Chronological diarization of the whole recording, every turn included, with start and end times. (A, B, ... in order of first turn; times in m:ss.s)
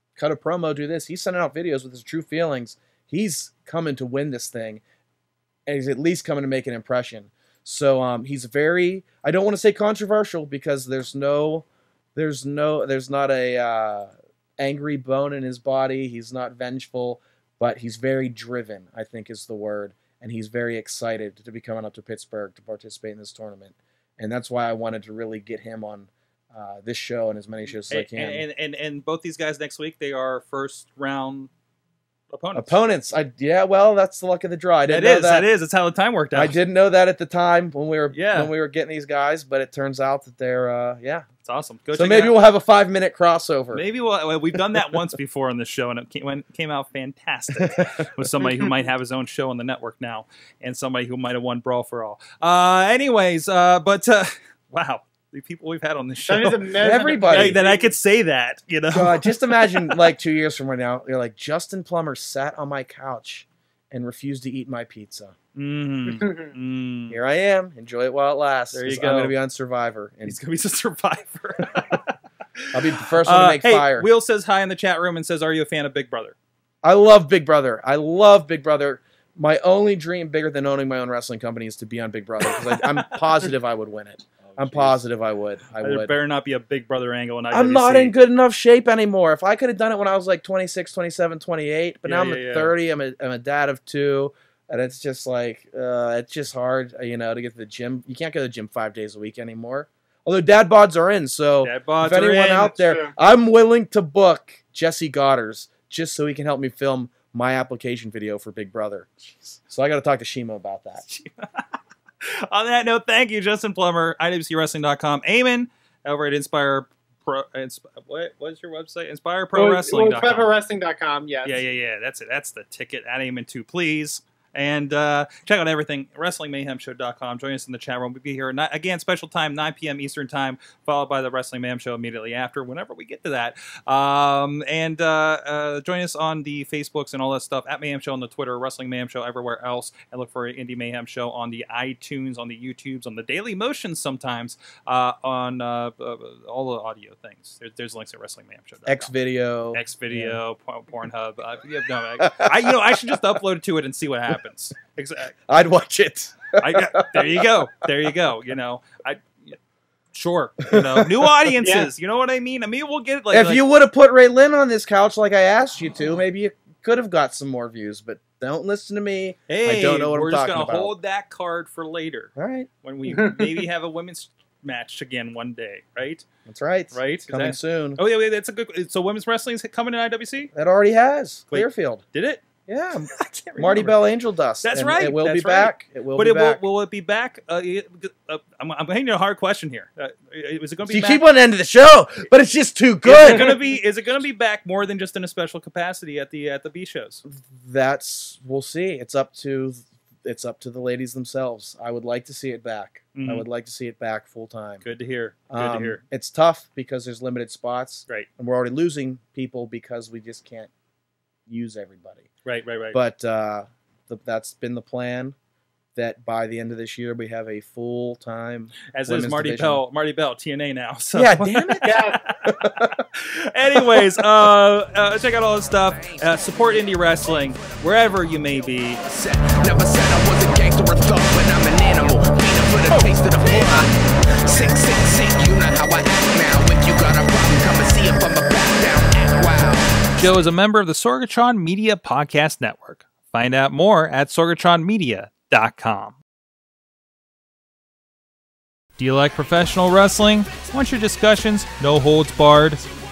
0:00.2-0:04.8 A
0:05.7-0:28.4 A
0:27.9-0:31.5 B
0:32.3-0:32.8 B
0:32.6-0:35.5 A
0:34.9-0:36.6 B
0:36.3-0:41.3 A
0:38.1-0:38.5 B
0:41.4-0:42.4 B
0:41.9-0:43.8 A
0:43.7-1:00.1 B
0:47.6-0:48.1 A
0:56.3-0:57.9 C
0:56.8-0:57.6 A
0:58.9-1:05.4 A
1:05.6-1:07.2 B
1:06.2-1:06.5 C
1:07.1-1:10.4 A
1:08.7-1:09.3 B
1:10.3-1:16.4 B
1:12.7-1:14.1 A
1:16.8-1:26.1 A
1:24.4-1:25.0 B
1:25.8-1:28.2 B
1:27.5-1:51.0 A
1:32.0-1:32.8 B
1:41.6-1:42.8 B
1:42.7-1:43.2 C
1:51.0-1:51.6 B
1:52.2-2:00.5 B
1:59.6-2:01.6 C
2:01.4-2:29.1 B
2:28.9-2:30.4 A
2:29.7-2:35.4 B
2:32.2-2:33.1 A
2:35.5-2:37.5 A
2:36.6-2:39.6 B
2:40.1-2:43.6 B
2:40.7-2:41.5 A
2:41.6-2:41.9 C
2:43.3-2:50.9 A
2:49.5-2:56.3 B
2:52.4-2:52.7 A
2:53.1-2:53.6 C
2:56.5-2:58.0 A
2:56.9-3:00.5 B
3:00.6-3:02.0 A
3:01.5-3:02.4 B
3:02.7-3:06.6 A
3:03.0-3:04.0 B
3:04.6-3:11.2 B
3:10.9-3:13.5 A
3:13.0-3:17.2 B
3:17.3-3:24.8 A
3:23.2-3:23.5 B
3:24.8-3:26.0 B
3:25.5-3:30.7 A
3:31.5-3:32.3 A
3:32.4-3:33.0 B
3:32.9-3:35.4 A
3:36.0-3:39.8 A
3:38.9-3:49.0 B
3:41.1-3:43.1 A
3:41.8-3:42.2 C
3:43.8-3:44.2 A
3:45.8-4:00.3 D
4:00.2-4:06.2 B
4:09.0-4:12.8 B